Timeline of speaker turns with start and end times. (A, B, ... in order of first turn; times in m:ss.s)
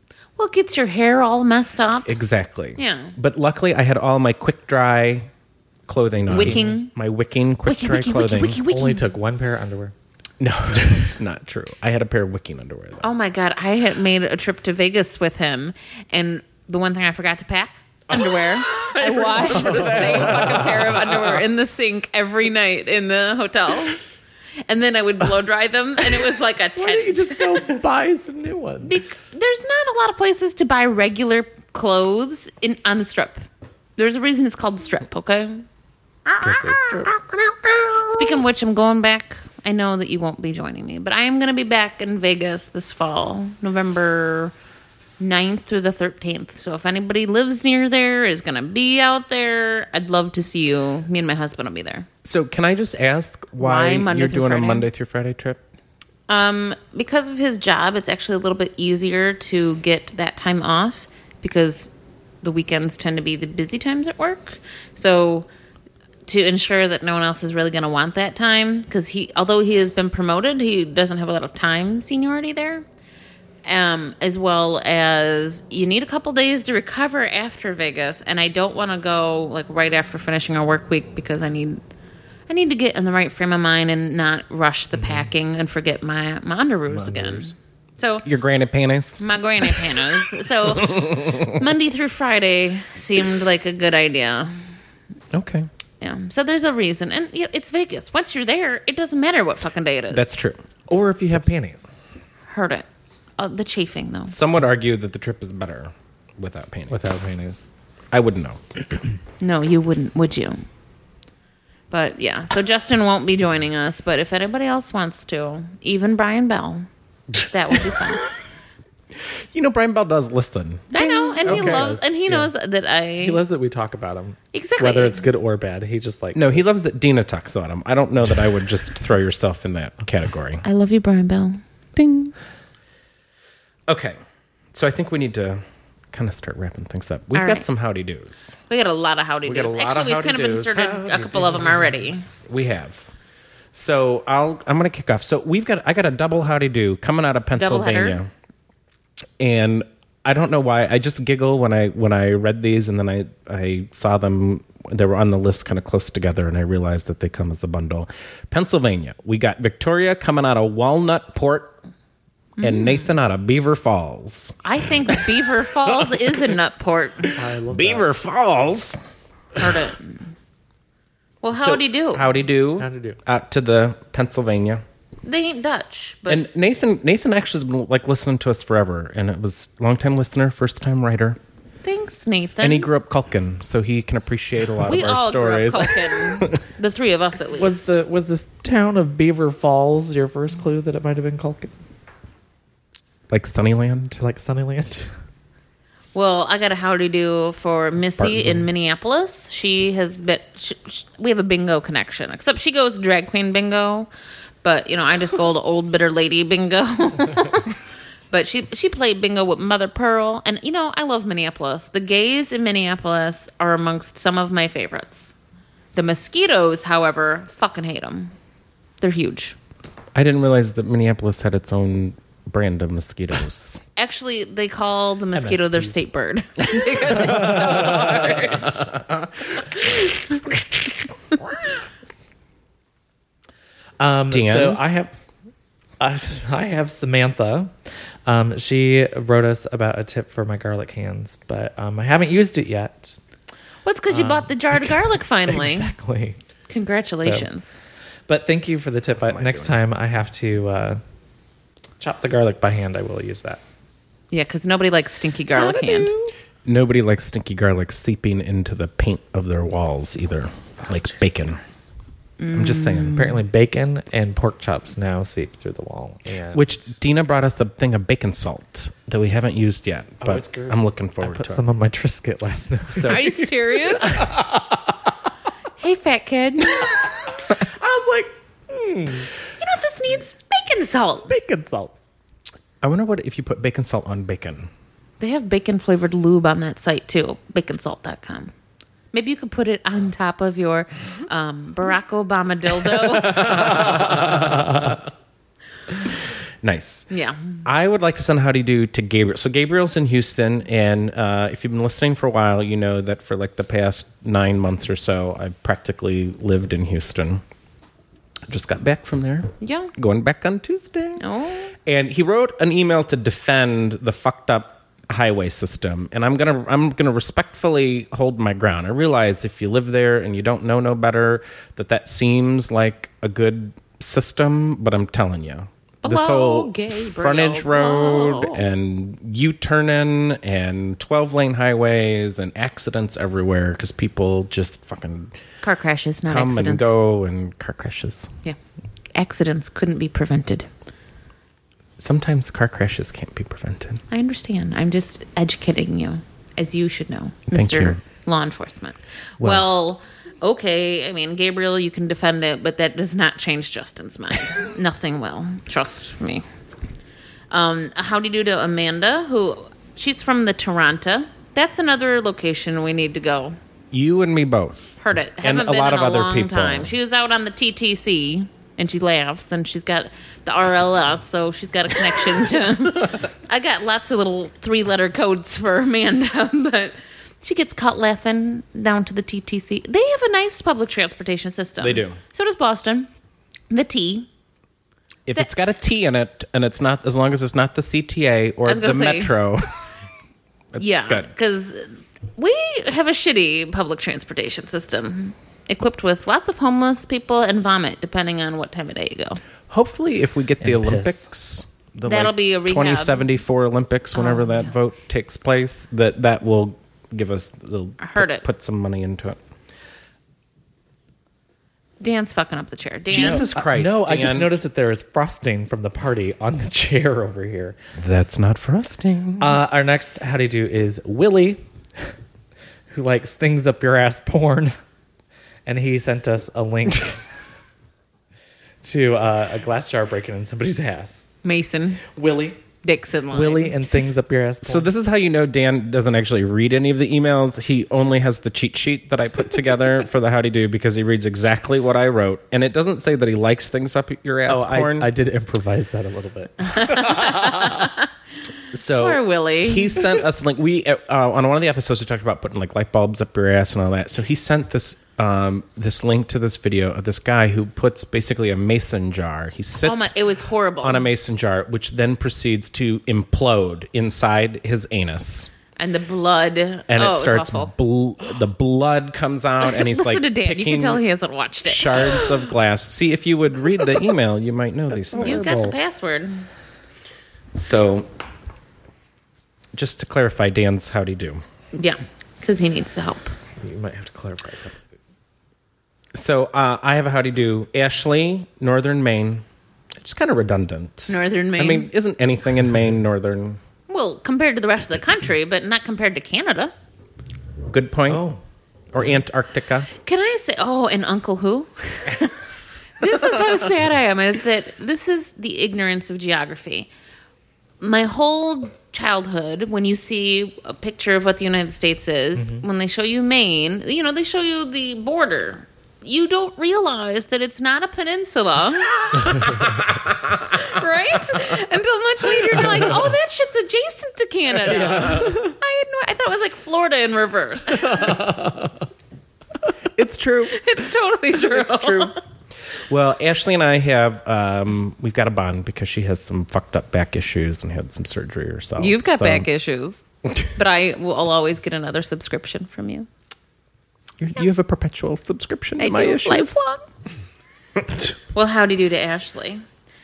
0:00.4-0:02.1 A
0:02.0-0:05.3 B
0:02.8-0:03.1 A
0:05.9-0:08.6 B
0:06.3-0:06.8 C
0:06.3-0:06.9 A
0:07.6-0:09.1 A
0:08.7-0:09.9 C
0:10.4-0:13.1 B
0:13.0-0:24.0 A
0:18.1-0:21.4 B
0:24.7-0:27.6 A
0:26.8-0:29.0 C
0:28.8-0:33.4 A
0:34.0-0:35.6 A
0:36.2-0:37.1 A
0:36.4-0:37.1 C
0:37.3-0:38.0 B
0:38.0-0:44.5 A
0:45.2-0:52.1 A
0:52.2-0:55.6 B
0:53.6-0:54.9 A
0:56.3-1:05.5 A
1:06.2-1:12.8 A
1:13.6-1:21.8 A
1:22.5-1:28.2 A
1:25.0-1:25.3 C
1:26.9-1:27.5 C
1:28.2-1:31.6 B
1:29.2-1:34.6 A
1:35.3-1:35.7 B
1:36.0-1:40.3 A
1:40.1-1:40.6 B
1:40.9-1:41.9 C
1:42.5-1:42.8 A
1:43.4-1:44.4 A
1:44.3-1:47.2 B
1:46.9-1:47.7 C
1:48.1-1:48.8 B
1:49.4-1:50.6 A
1:51.9-1:56.9 A
1:57.4-1:58.3 A
1:59.2-2:01.9 B
2:00.9-2:03.4 A
2:01.4-2:02.5 C
2:03.2-2:06.6 C
2:04.5-2:05.2 A
2:06.3-2:10.6 B
2:10.6-2:11.6 A
2:12.0-2:12.3 B
2:13.9-2:14.2 B
2:14.7-2:18.6 B
2:17.3-2:17.6 A
2:18.7-2:22.2 A
2:19.4-2:21.0 B
2:20.9-2:22.0 C
2:22.4-2:23.1 B
2:23.7-2:28.3 B
2:27.5-2:28.2 A
2:29.4-2:41.8 B
2:42.6-2:43.1 A
2:42.6-2:46.3 B
2:44.6-2:47.3 A
2:47.3-2:48.1 C
2:47.7-2:49.0 B
2:49.6-2:50.2 A
2:51.4-2:52.3 A
2:51.5-2:54.8 B
2:52.8-2:53.2 C
2:55.2-2:56.4 A
2:56.3-3:01.4 B
3:01.8-3:02.9 A
3:02.6-3:06.6 B
3:04.8-3:07.8 A
3:07.6-3:11.7 C
3:13.3-3:14.2 B
3:14.2-3:15.1 C
3:16.1-3:24.1 A
3:18.2-3:18.6 C
3:24.6-3:27.8 A
3:28.3-3:35.3 A
3:35.9-3:38.3 A
3:39.0-3:39.6 A
3:40.1-3:43.8 B
3:44.0-3:48.9 A
3:45.3-3:46.0 C
3:47.4-3:47.8 C
3:47.4-3:48.0 B
3:49.7-3:50.6 A
3:54.0-3:55.1 C
3:54.3-3:54.8 B
3:56.0-3:57.7 C
3:58.2-4:03.2 C
4:03.8-4:05.9 A
4:04.1-4:06.4 C
4:06.7-4:07.8 A
4:08.3-4:11.0 C
4:09.2-4:09.7 B
4:12.0-4:13.6 C
4:14.3-4:16.1 A
4:15.5-4:16.3 C
4:16.6-4:21.6 B
4:22.4-4:23.4 A
4:22.5-4:23.2 B
4:23.1-4:26.8 C
4:26.5-4:31.6 B
4:30.2-4:35.0 C
4:32.9-4:33.3 B
4:33.0-4:34.2 A
4:35.8-4:37.1 A
4:37.4-4:39.3 C
4:39.6-4:41.3 A
4:41.3-4:41.9 C
4:42.8-4:44.7 B
4:45.2-4:48.5 A
4:49.1-4:54.0 A
4:53.0-4:54.9 B
4:56.6-4:57.1 B
4:57.1-4:57.6 A
4:57.6-5:07.4 B
5:08.5-5:11.2 B
5:09.6-5:09.9 A
5:11.2-5:11.7 A
5:11.8-5:35.4 B
5:26.0-5:28.6 A
5:35.6-5:36.9 A
5:36.3-5:38.3 B
5:39.1-5:40.7 A
5:42.0-5:44.0 B
5:44.1-5:56.4 A
5:47.5-5:48.0 B
5:49.4-5:49.6 B
5:57.5-6:03.6 A
6:03.9-6:06.9 B
6:05.0-6:23.1 A
6:21.8-6:22.2 B
6:23.7-6:24.3 A
6:25.3-6:29.7 B
6:28.6-6:29.3 A
6:30.7-6:31.3 B
6:30.8-6:39.4 A
6:39.7-6:49.4 B
6:40.6-6:41.2 C
6:42.0-6:43.3 A
6:44.1-6:44.7 A
6:48.0-6:48.4 A
6:52.0-6:53.5 A
6:53.1-6:54.5 B
6:53.1-6:57.8 C
6:58.0-6:59.6 B
6:59.4-7:01.6 C
7:02.9-7:04.7 C
7:05.6-7:07.2 C
7:08.8-7:11.3 C
7:11.4-7:12.0 A
7:12.1-7:12.6 C
7:12.8-7:13.7 A
7:13.3-7:14.9 C
7:14.6-7:25.1 B
7:24.5-7:27.7 C
7:26.7-7:28.1 A
7:28.7-7:40.1 B
7:28.9-7:30.0 A
7:39.8-7:41.1 A
7:40.8-7:45.5 B
7:45.8-7:47.7 A
7:46.9-7:51.0 B
7:49.6-7:52.5 A
7:51.6-7:55.6 B
7:55.1-7:56.5 A
7:55.1-7:55.7 C
7:57.5-7:58.1 B
7:59.7-8:01.4 B
8:01.7-8:03.4 A
8:03.6-8:05.0 C
8:06.1-8:09.4 B
8:10.0-8:13.6 B
8:11.1-8:11.9 A
8:13.9-8:16.7 A
8:17.7-8:18.2 B
8:18.1-8:18.4 C
8:18.9-8:19.9 B
8:20.0-8:22.4 A
8:23.0-8:26.9 A
8:27.8-8:39.7 A
8:40.4-8:48.2 A
8:44.6-8:45.5 C
8:48.0-8:48.7 C
8:49.9-8:50.6 B
8:50.5-8:52.2 A
8:51.4-8:52.1 B
8:52.9-8:59.5 B
8:58.8-9:03.1 A
9:04.2-9:06.6 B
9:05.8-9:06.8 A
9:08.3-9:09.6 A